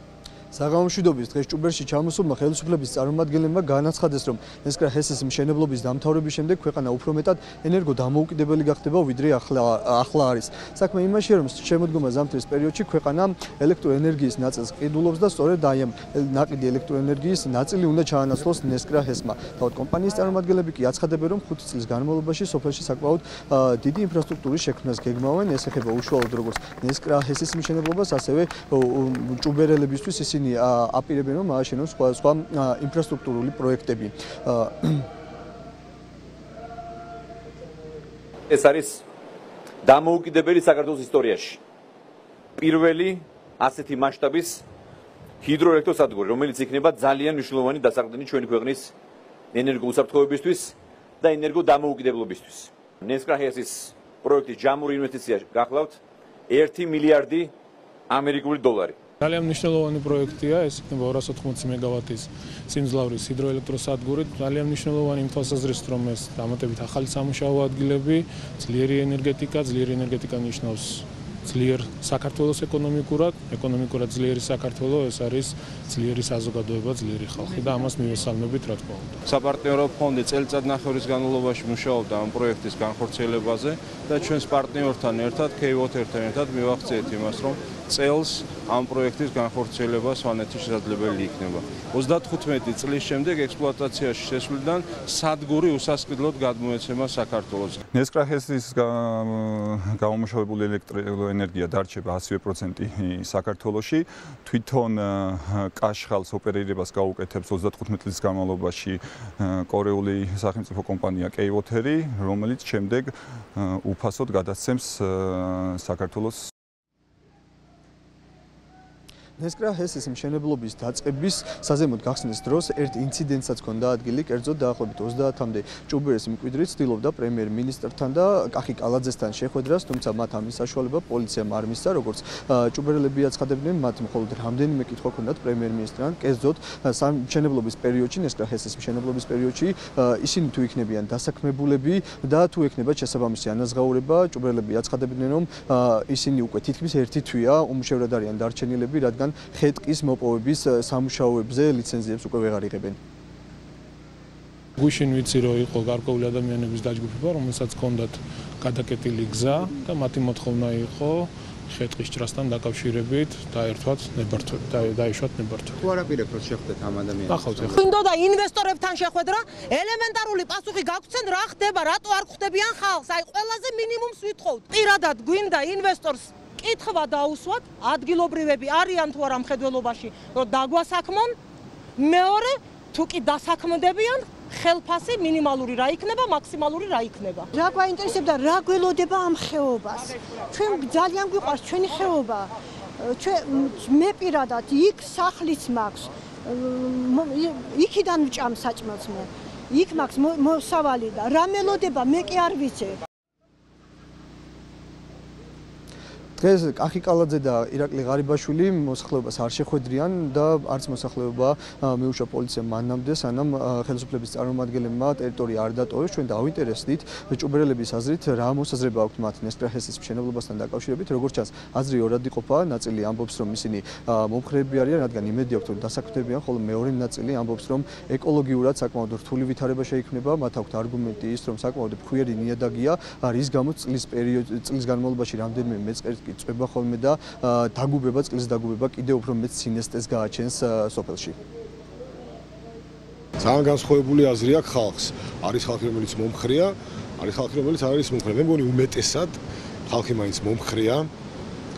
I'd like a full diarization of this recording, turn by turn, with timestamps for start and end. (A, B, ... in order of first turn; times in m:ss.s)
0:00.5-0:35.0 A
0:38.5-0:39.0 B
0:39.8-0:41.6 B
0:42.6-0:44.6 B
0:45.4-0:48.9 B
0:49.5-0:57.5 B
0:58.1-0:59.0 B
0:59.2-1:19.2 C
1:19.2-1:37.8 D
1:37.9-1:56.5 E
1:59.4-2:33.0 A
2:34.8-2:45.8 C
2:45.8-2:47.8 F
2:47.3-2:47.8 C
2:47.7-3:01.4 G
3:02.0-3:07.5 G
3:07.5-3:23.0 H
3:26.4-4:01.4 A
4:03.4-4:11.1 I